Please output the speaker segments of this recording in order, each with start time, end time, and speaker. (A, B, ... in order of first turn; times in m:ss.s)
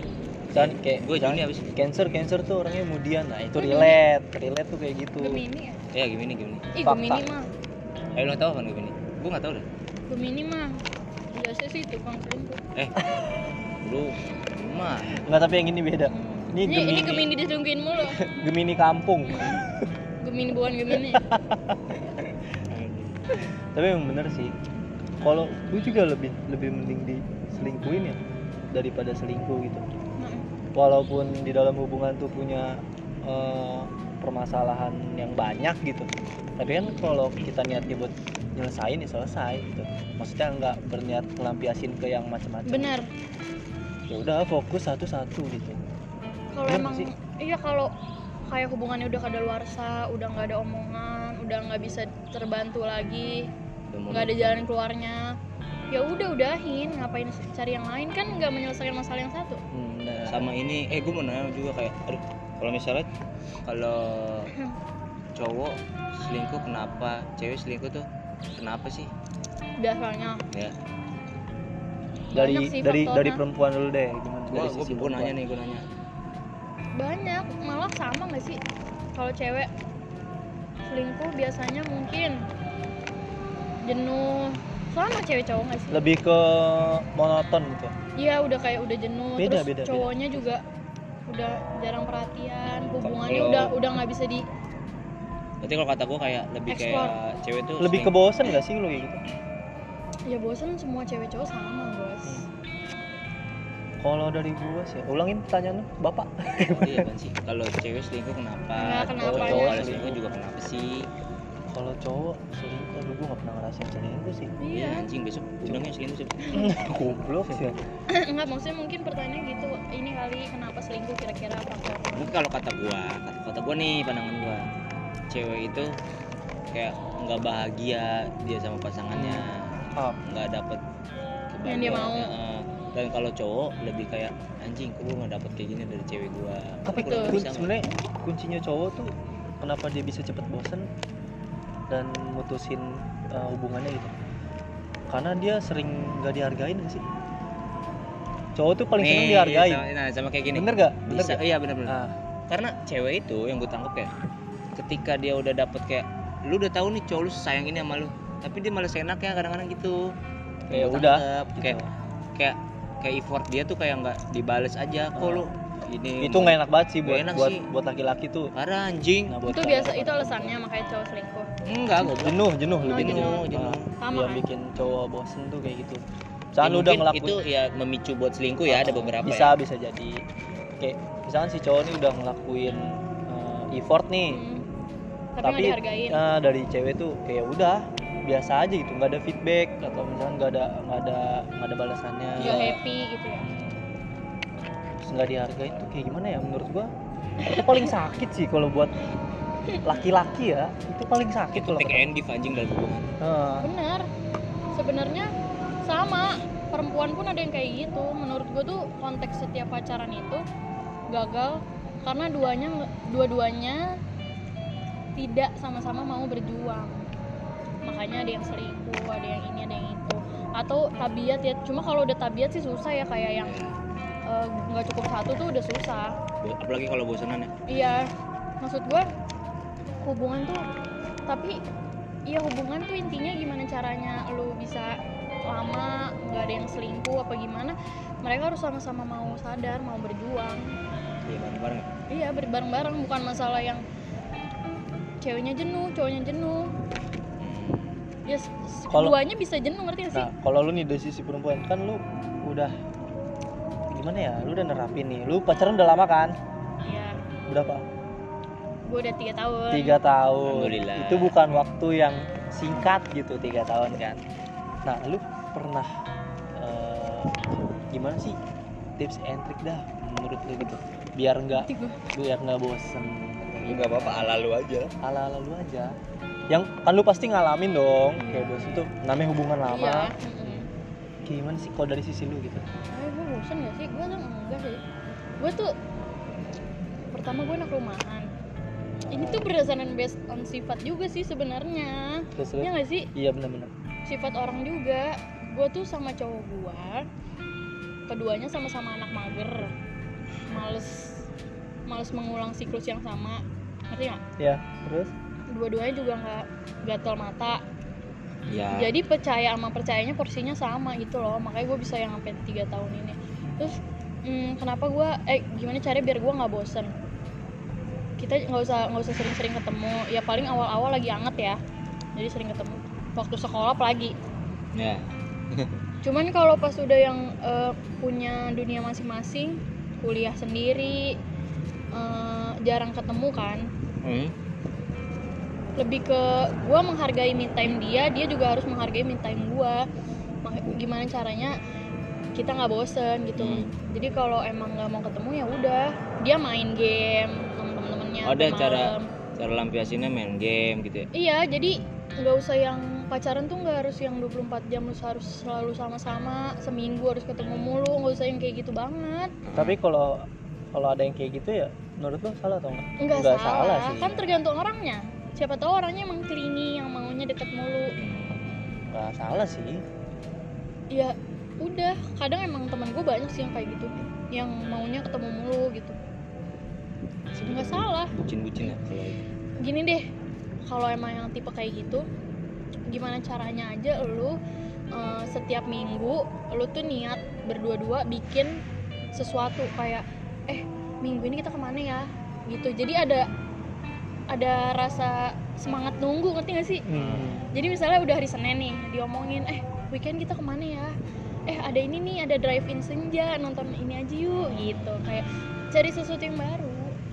0:00.5-0:01.7 A
0:00.5-0:05.4 B
0:03.6-0:04.0 C
0:05.2-0:05.8 C
0:05.9-0:06.7 A
0:06.7-0:07.5 C
0:06.8-0:07.2 B
0:08.2-0:09.7 A
0:10.1-0:10.8 C
0:11.3-0:12.6 C
0:13.8-0:15.2 A
0:15.1-0:17.3 B
0:16.1-0:18.2 C
0:18.1-0:19.9 B
0:19.2-0:19.6 C
0:20.2-0:21.3 C
0:21.0-0:21.8 B
0:22.7-0:23.3 A
0:23.7-0:24.5 B
0:25.2-0:28.2 B
0:28.7-0:29.8 B
0:30.2-0:30.5 C
0:30.8-0:43.0 B
0:42.7-0:43.1 C
0:44.1-0:45.8 B
0:46.5-0:47.9 C
0:46.7-0:47.1 B
0:48.5-0:53.5 C
0:53.9-0:54.7 A
0:54.1-0:55.4 C
0:55.9-0:59.6 C
0:59.7-1:00.5 B
1:00.3-1:03.1 A
1:03.7-1:04.5 A
1:05.4-1:09.1 A
1:09.8-1:10.4 C
1:12.3-1:13.4 C
1:12.3-1:15.4 B
1:14.5-1:15.8 A
1:17.0-1:18.6 C
1:19.2-1:19.7 C
1:20.9-1:22.4 C
1:23.8-1:26.1 C
1:25.9-1:27.9 B
1:28.2-1:30.6 C
1:29.4-1:30.4 B
1:31.3-1:34.5 C
1:33.0-1:33.8 A
1:35.6-1:38.6 A
1:36.7-1:37.2 C
1:37.8-1:39.2 B
1:40.3-1:42.5 C
1:44.0-1:47.1 B
1:46.6-1:51.1 A
1:48.8-1:50.0 C
1:49.2-1:50.3 B
1:51.7-1:54.5 B
1:54.6-1:55.1 C
1:54.7-1:57.6 A
1:56.5-1:57.8 B
1:58.1-2:02.3 C
2:02.1-2:04.6 A
2:05.3-2:06.0 A
2:06.7-2:10.8 A
2:09.1-2:10.2 B
2:11.5-2:17.7 A
2:11.6-2:12.3 C
2:16.9-2:20.9 B
2:16.9-2:17.4 C
2:21.9-2:24.1 B
2:25.1-2:27.0 B
2:28.5-2:29.8 B
2:29.0-2:32.0 A
2:30.5-2:32.2 B
2:32.5-2:34.1 A
2:34.8-2:40.1 A
2:40.7-2:41.8 A
2:40.7-2:41.9 B
2:42.4-2:47.6 A
2:45.2-2:45.5 B
2:46.2-2:48.5 B
2:48.5-2:49.4 A
2:49.2-2:50.6 B
2:49.5-2:51.5 C
2:51.6-2:53.9 A
2:52.0-2:56.0 B
2:52.9-2:53.5 C
2:54.0-2:54.4 C
2:56.5-2:57.4 B
2:56.6-2:59.6 A
2:58.7-3:00.2 B
3:00.8-3:04.4 B
3:04.3-3:04.6 C
3:05.4-3:06.2 C
3:05.4-3:12.8 B
3:12.4-3:13.5 C
3:12.4-3:12.8 A
3:15.0-3:16.9 B
3:17.4-3:19.0 B
3:19.8-3:22.0 B
3:21.5-3:23.1 A
3:23.2-3:23.7 B
3:23.6-3:24.1 C
3:24.7-3:25.3 C
3:25.8-3:30.4 C
3:31.1-3:33.9 C
3:35.2-3:37.0 C
3:37.8-3:43.5 C
3:43.4-3:43.8 A
3:44.3-3:46.2 C
3:46.4-3:47.5 A
3:47.7-3:48.1 C
3:48.6-3:49.1 C
3:50.0-3:50.6 C
3:51.3-3:51.6 C
3:52.3-4:00.8 C
4:01.2-4:01.9 A
4:02.1-4:03.8 C
4:05.2-4:06.7 C
4:07.4-4:08.0 A
4:08.3-4:10.3 C
4:08.9-4:09.2 B
4:10.1-4:12.8 B
4:13.9-4:16.4 B
4:16.8-4:17.2 C
4:17.5-4:17.8 B
4:18.9-4:20.0 C
4:19.7-4:24.2 B
4:20.4-4:21.4 A
4:24.8-4:25.9 B
4:26.6-4:28.4 B
4:29.0-4:34.3 B
4:31.5-4:32.0 C
4:33.6-4:34.9 A
4:35.0-4:36.0 B
4:36.5-4:40.6 B
4:38.2-4:38.9 C
4:39.7-4:40.7 C
4:41.2-4:42.7 B
4:42.9-4:44.8 C
4:45.4-4:45.8 C
4:47.1-4:48.3 C
4:49.0-4:49.5 B
4:49.1-4:53.1 C
4:52.4-4:53.7 B
4:54.0-4:57.0 C
4:58.1-4:59.7 C
5:00.5-5:01.3 C
5:01.9-5:04.2 C
5:04.4-5:05.1 B
5:05.5-5:07.6 C
5:08.5-5:08.9 A
5:08.7-5:16.9 C
5:18.2-5:21.6 C
5:22.2-5:24.2 C
5:24.8-5:25.7 A
5:26.0-5:31.2 C
5:31.9-5:33.7 C
5:34.0-5:34.3 A
5:35.8-5:39.8 C
5:40.4-5:41.6 C
5:42.4-5:49.1 C
5:43.4-5:43.7 A
5:48.2-5:51.1 A
5:51.1-5:59.3 C
5:59.4-5:59.8 A
5:59.5-6:04.3 B
6:03.0-6:08.0 C
6:08.0-6:08.8 A
6:08.9-6:09.8 B
6:10.9-6:16.0 C
6:17.3-6:19.2 A
6:17.4-6:18.1 C
6:19.6-6:20.0 C
6:20.7-6:22.0 C
6:22.9-6:24.4 C
6:24.9-6:28.6 C
6:29.1-6:33.3 C
6:34.3-6:36.9 C
6:36.9-6:37.5 B
6:36.9-6:37.4 A
6:37.5-6:40.9 C
6:41.5-6:47.0 C
6:44.4-6:45.0 A